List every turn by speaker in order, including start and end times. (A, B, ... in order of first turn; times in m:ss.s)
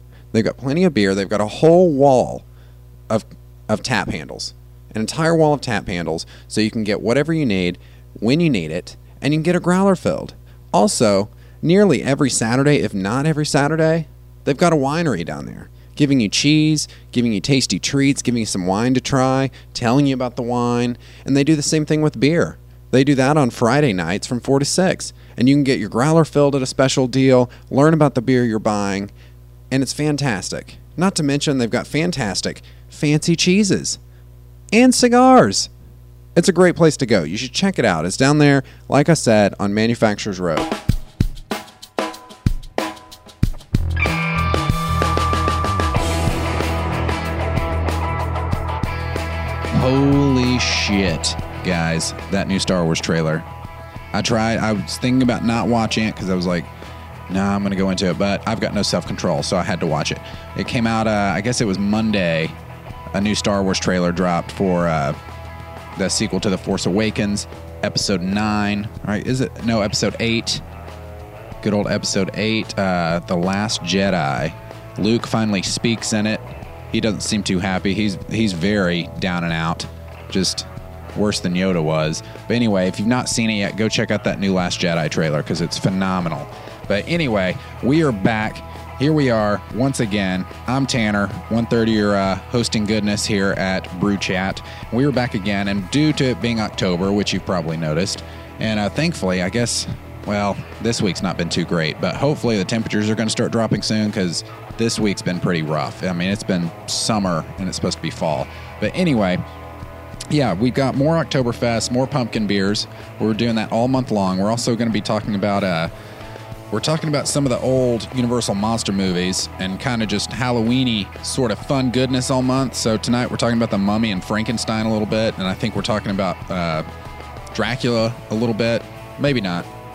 0:00.3-0:02.5 A
0:03.1-0:29.1 A
0:29.7-0:34.0 A
0:34.7-0:35.7 A
0:36.4-0:40.7 A
0:49.7-0:53.5 A
0:54.1-0:56.7 A
0:57.3-1:02.6 A
1:03.1-1:05.2 A
1:06.0-1:10.6 A
1:11.6-1:49.4 A
1:50.3-1:55.9 A
1:56.7-2:06.9 A
2:07.5-2:09.7 A